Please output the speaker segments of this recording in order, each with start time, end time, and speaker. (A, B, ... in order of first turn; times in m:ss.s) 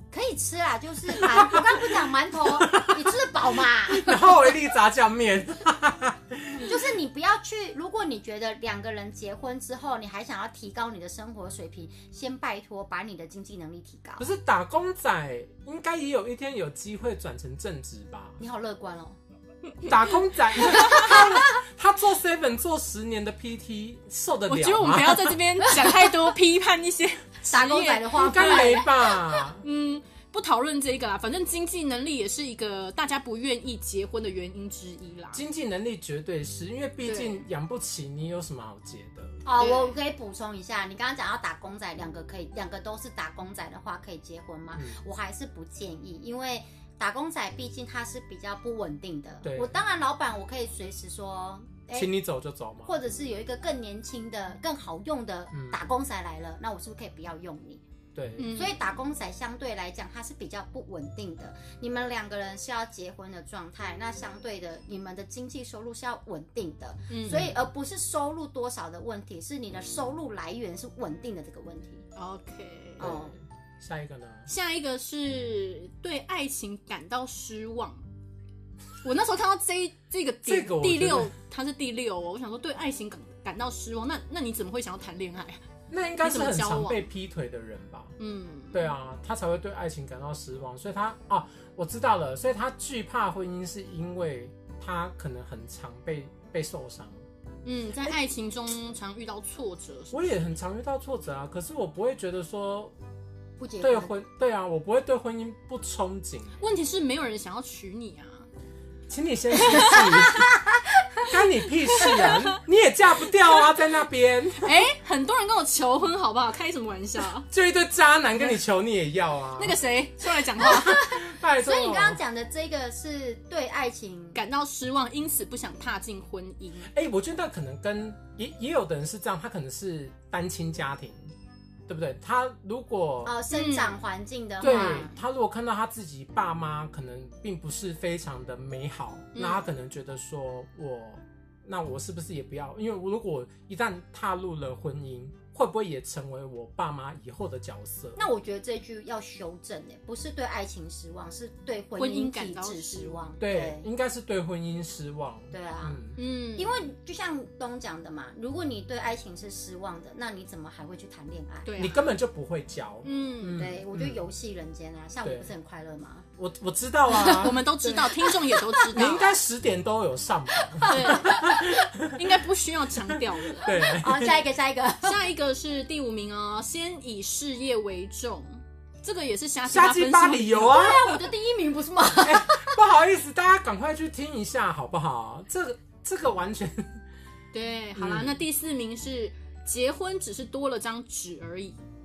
0:00.1-0:04.6 A
0:01.1-0:01.7 B
0:02.5-0:03.2 B
0:03.8-0:06.7 B
0:06.6-0:14.3 A
0:14.2-0:18.4 B
0:18.4-0:19.2 A
0:19.8-0:25.4 B
0:19.9-0:20.1 C
0:20.7-0:21.1 C
0:24.5-0:35.4 C
0:27.4-0:28.9 A
0:28.2-0:29.6 B
0:35.3-0:39.4 B
0:37.0-0:37.4 C
0:39.4-0:52.1 A
0:39.6-0:40.0 C
0:49.4-0:49.7 B
0:51.9-0:52.9 B
0:52.8-0:57.8 A
0:55.5-0:55.8 B
0:58.1-0:58.5 B
0:58.4-0:58.8 C
0:58.5-1:12.0 A
1:07.1-1:07.5 C
1:12.2-1:13.1 C
1:13.0-1:13.3 A
1:13.0-1:14.5 B
1:14.5-1:18.0 C
1:19.0-1:25.6 C
1:20.4-1:21.3 B
1:25.9-1:28.1 B
1:26.2-1:27.0 C
1:28.2-1:28.8 C
1:28.7-1:37.2 B
1:37.6-1:40.4 C
1:40.1-1:42.9 B
1:43.6-1:44.1 A
1:43.8-1:46.6 B
1:46.6-1:48.5 C
1:49.1-1:50.5 B
1:49.6-1:50.3 C
1:51.2-1:54.8 B
1:51.9-1:52.6 C
1:54.6-1:57.5 C
1:57.5-1:59.8 B
1:59.6-2:01.1 C
2:00.6-2:04.4 A
2:00.7-2:02.2 B
2:04.3-2:06.9 C
2:06.9-2:11.3 B
2:11.9-2:13.4 B
2:13.2-2:15.2 A
2:13.5-2:14.0 C
2:14.6-2:28.2 B
2:19.3-2:19.6 C
2:28.2-2:33.8 A
2:32.0-2:33.2 C
2:33.4-2:36.2 B
2:35.5-2:36.0 A
2:36.2-2:36.7 C
2:36.5-2:41.7 A
2:41.6-2:42.0 C
2:41.8-2:44.2 B
2:43.0-2:43.6 C
2:43.6-2:46.2 A
2:45.2-2:45.5 B
2:46.4-2:47.6 B
2:47.1-2:48.9 A
2:47.2-2:49.3 C
2:48.9-2:52.2 B
2:50.7-2:51.8 A
2:50.9-2:53.8 C
2:53.6-2:54.4 B
2:53.6-2:55.2 A
2:55.0-3:01.2 C
2:59.6-3:01.1 B
3:00.7-3:02.8 A
3:02.2-3:07.0 B
3:07.5-3:11.8 C
3:07.9-3:08.4 B